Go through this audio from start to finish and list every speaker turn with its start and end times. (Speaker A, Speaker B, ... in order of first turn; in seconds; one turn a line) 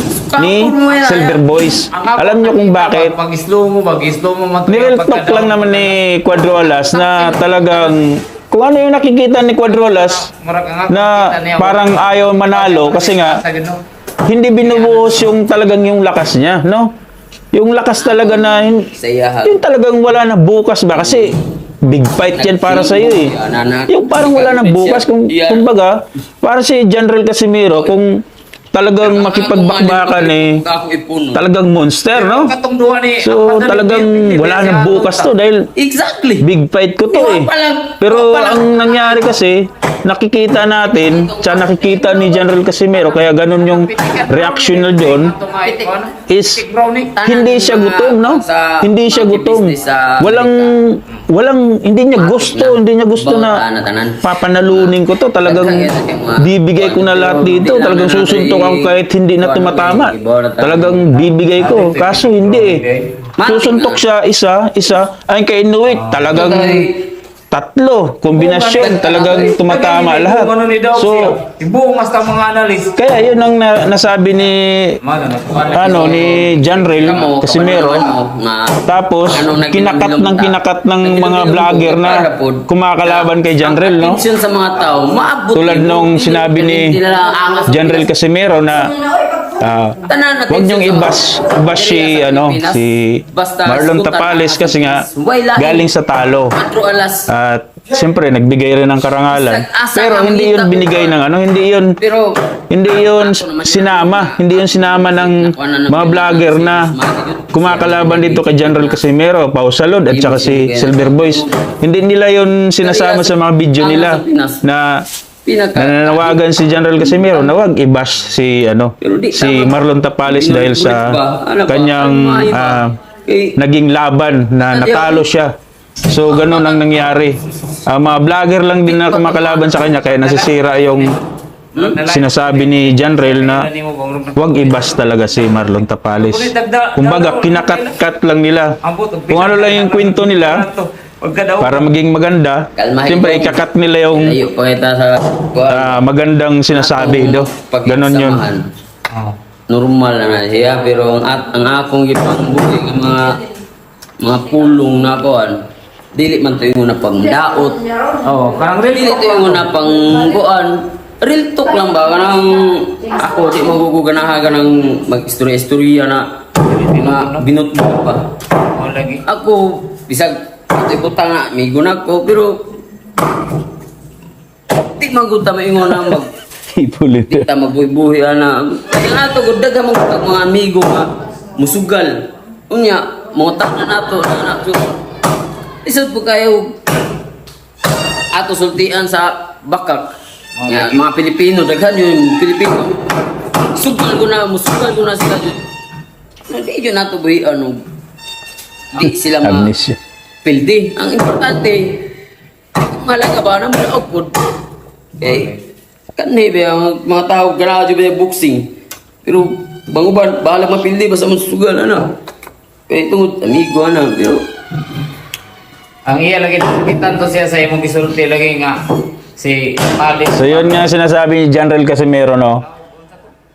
Speaker A: 0.2-1.4
Speaker B: 0.3-3.1
Speaker C: 1.9-6.0
Speaker B: 4.7-10.3
Speaker C: 6.7-8.0
Speaker C: 9.7-13.8
Speaker B: 10.9-13.4
Speaker B: 14.3-16.9
Speaker C: 14.6-15.3
Speaker B: 17.5-18.9
Speaker A: 17.9-19.6
Speaker B: 19.4-21.3
Speaker A: 20.9-21.3
Speaker B: 21.8-23.3
Speaker A: 22.3-25.7
Speaker B: 23.9-28.2
Speaker B: 28.7-30.6
Speaker A: 29.0-31.4
Speaker B: 31.3-32.5
Speaker C: 32.1-35.3
Speaker B: 33.2-35.7
Speaker A: 35.8-36.5
Speaker B: 36.4-45.3
Speaker A: 37.1-39.2
Speaker A: 40.9-43.1
Speaker C: 43.3-47.1
Speaker B: 46.3-46.6
Speaker A: 47.1-50.8
Speaker B: 47.2-53.6
Speaker A: 52.1-61.2
Speaker B: 54.2-62.8
Speaker C: 61.6-63.2
Speaker A: 63.4-64.0
Speaker B: 63.4-66.9
Speaker C: 65.9-66.3
Speaker A: 66.3-67.1
Speaker B: 67.5-71.4
Speaker C: 68.3-72.9
Speaker A: 68.8-69.6
Speaker B: 73.0-75.0
Speaker C: 75.0-77.2
Speaker A: 75.6-88.1
Speaker B: 75.7-78.1
Speaker B: 78.9-84.2
Speaker B: 85.5-87.0
Speaker B: 87.7-89.0
Speaker B: 89.5-95.0
Speaker A: 90.0-95.9
Speaker B: 95.6-96.5
Speaker A: 96.5-97.3
Speaker B: 97.3-102.0
Speaker A: 99.3-101.2
Speaker A: 102.0-109.0
Speaker B: 102.7-106.9
Speaker B: 107.5-115.0
Speaker A: 110.1-111.7
Speaker A: 112.8-114.6
Speaker A: 115.4-117.5
Speaker B: 115.8-122.9
Speaker A: 119.0-123.6
Speaker B: 123.6-125.5
Speaker A: 124.6-125.3
Speaker B: 126.1-131.2
Speaker A: 126.2-126.8
Speaker A: 128.9-130.0
Speaker C: 130.1-131.2
Speaker C: 131.7-138.0
Speaker B: 132.0-133.7
Speaker B: 134.3-138.8
Speaker C: 138.8-141.9
Speaker B: 139.3-140.7
Speaker B: 141.6-144.4
Speaker A: 142.8-146.0
Speaker B: 145.7-148.4
Speaker A: 146.7-148.6
Speaker C: 149.1-149.4
Speaker A: 149.7-153.4
Speaker A: 154.2-155.5
Speaker A: 156.1-157.9
Speaker C: 158.2-159.7
Speaker A: 158.9-166.2
Speaker C: 166.6-167.5
Speaker A: 166.9-168.2
Speaker C: 168.7-169.2
Speaker A: 169.2-172.6
Speaker A: 174.8-176.3
Speaker B: 176.7-177.4
Speaker A: 177.3-182.2
Speaker A: 182.7-185.0
Speaker A: 185.8-186.8
Speaker A: 188.3-190.1
Speaker C: 190.6-191.0
Speaker A: 190.7-195.6
Speaker A: 196.5-197.8
Speaker A: 198.9-199.7
Speaker B: 199.4-200.0
Speaker A: 200.4-202.1
Speaker A: 202.8-204.5
Speaker C: 205.2-205.6
Speaker A: 205.2-205.5
Speaker A: 206.1-208.7
Speaker A: 209.2-212.1
Speaker A: 212.9-214.4
Speaker C: 216.1-220.9
Speaker B: 220.3-222.6
Speaker C: 222.6-223.3